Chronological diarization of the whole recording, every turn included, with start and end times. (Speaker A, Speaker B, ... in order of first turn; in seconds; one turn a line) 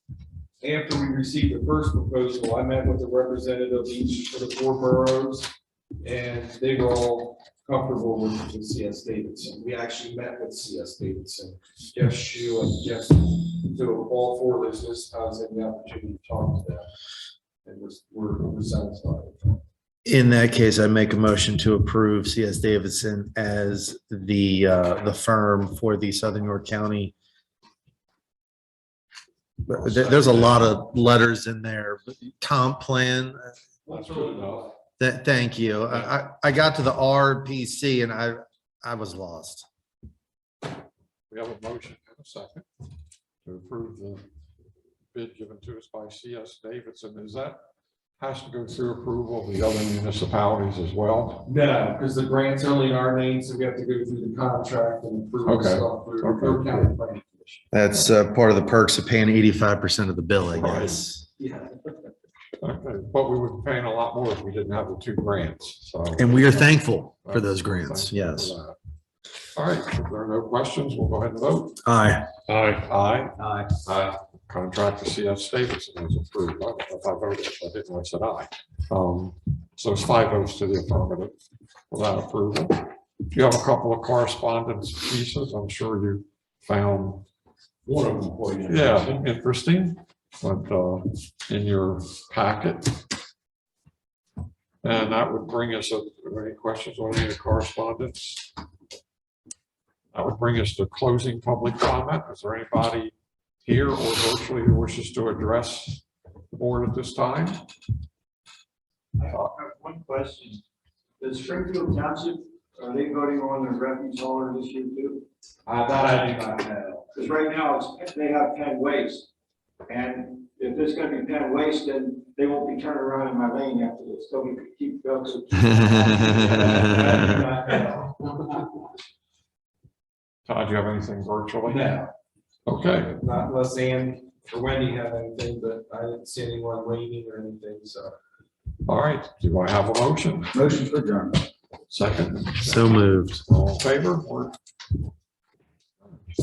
Speaker A: 0.6-16.9
Speaker A: 17.6-19.6
Speaker B: 20.0-27.1
Speaker B: 29.6-33.5
Speaker C: 29.7-30.5
Speaker A: 33.9-34.8
Speaker C: 33.9-34.7
Speaker B: 35.0-39.7
Speaker C: 41.3-42.7
Speaker C: 43.4-44.3
Speaker C: 45.1-47.6
Speaker C: 48.2-51.4
Speaker A: 51.5-57.6
Speaker C: 55.4-56.9
Speaker B: 57.7-61.2
Speaker C: 60.5-61.0
Speaker A: 61.4-61.7
Speaker C: 62.6-68.8
Speaker B: 66.2-68.5
Speaker C: 69.5-71.8
Speaker B: 71.8-72.3
Speaker C: 72.5-81.3
Speaker C: 81.9-87.2
Speaker A: 87.8-89.2
Speaker C: 88.7-93.0
Speaker C: 94.8-98.5
Speaker C: 100.1-107.6
Speaker D: 109.2-110.5
Speaker D: 111.2-115.2
Speaker A: 115.7-117.1
Speaker D: 117.1-119.3
Speaker D: 119.9-128.3
Speaker B: 125.7-127.4
Speaker A: 126.4-127.4
Speaker C: 130.4-132.0
Speaker C: 132.7-133.1
Speaker A: 133.0-138.2
Speaker C: 138.8-140.5
Speaker D: 140.5-141.5
Speaker C: 141.9-144.6
Speaker B: 142.6-143.4